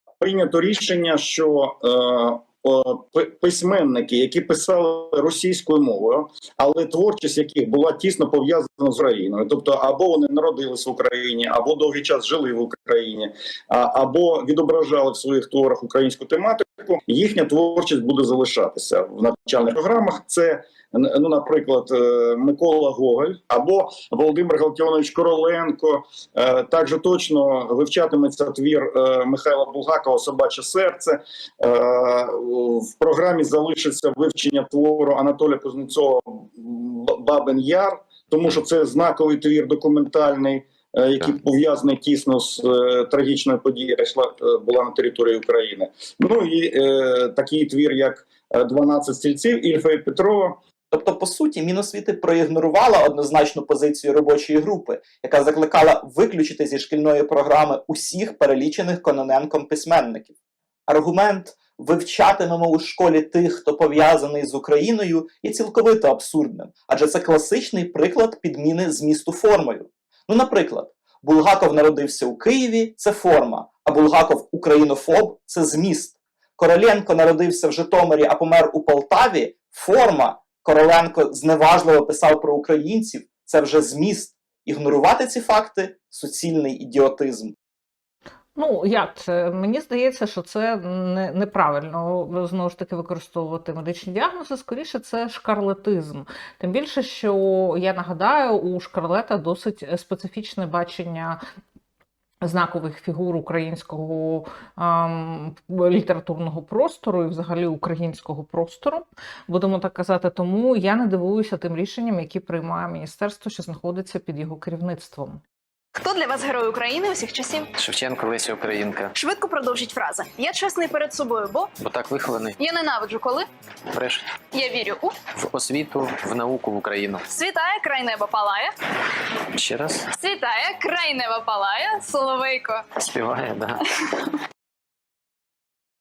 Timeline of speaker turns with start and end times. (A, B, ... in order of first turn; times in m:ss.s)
0:00.2-0:50.6 A
0:50.9-1:00.3 B
1:00.9-1:27.5 B
1:28.6-1:41.4 C
1:42.4-1:55.4 C
1:56.0-1:57.7 D
1:57.8-1:59.1 E
1:59.2-2:01.7 D
2:01.8-2:02.6 E
2:02.6-2:03.4 D
2:03.9-2:04.2 E
2:04.5-2:05.2 D
2:05.4-2:07.2 E
2:07.3-2:08.7 D
2:09.5-2:10.1 E
2:10.1-2:12.8 D
2:13.0-2:13.8 E